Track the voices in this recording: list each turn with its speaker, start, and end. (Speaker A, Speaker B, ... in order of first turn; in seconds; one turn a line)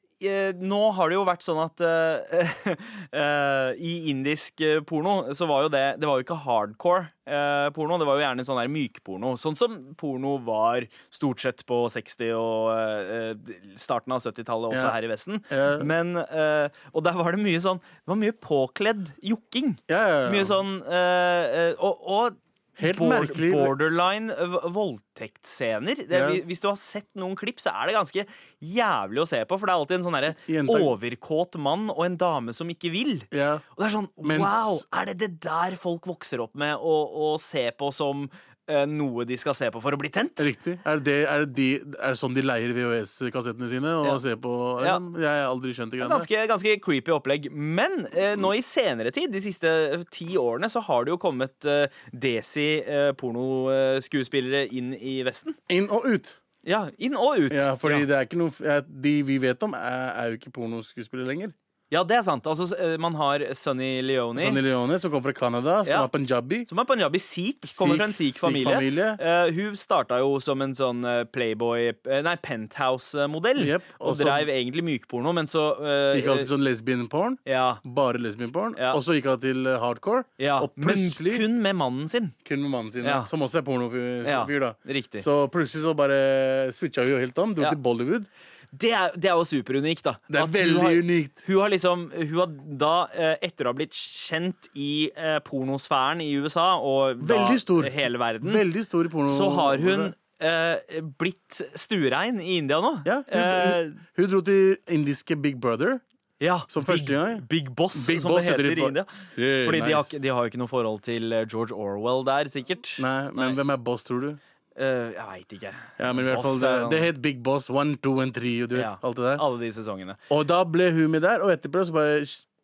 Speaker A: 0.2-40.5
Speaker B: 14.7-15.0
Speaker B: 15.5-15.9
Speaker B: 19.9-20.6
Speaker B: 22.8-23.8
Speaker B: 26.1-26.4
Speaker B: 30.3-30.9
Speaker B: 33.3-33.6
Speaker B: 34.2-34.8
Speaker B: 40.4-46.3
Speaker A: 44.8-45.0
Speaker A: 46.0-55.6
Speaker B: 55.7-56.4
Speaker A: 56.6-58.1
Speaker B: 57.5-61.5
Speaker A: 61.9-64.6
Speaker B: 64.3-66.7
Speaker A: 66.7-76.5
Speaker B: 67.6-69.2
Speaker B: 73.6-74.5
Speaker B: 76.1-81.5
Speaker A: 77.5-77.8
Speaker A: 80.4-82.3
Speaker B: 82.5-88.3
Speaker A: 83.0-83.3
Speaker A: 84.2-85.3
Speaker A: 88.7-98.6
Speaker B: 90.3-91.4
Speaker B: 97.2-100.1
Speaker A: 99.2-104.0
Speaker B: 103.0-106.0
Speaker A: 106.4-109.1
Speaker B: 106.7-110.1
Speaker A: 109.6-113.6
Speaker B: 113.0-114.4
Speaker A: 114.8-117.1
Speaker B: 116.0-119.4
Speaker A: 118.7-120.2
Speaker B: 120.3-122.5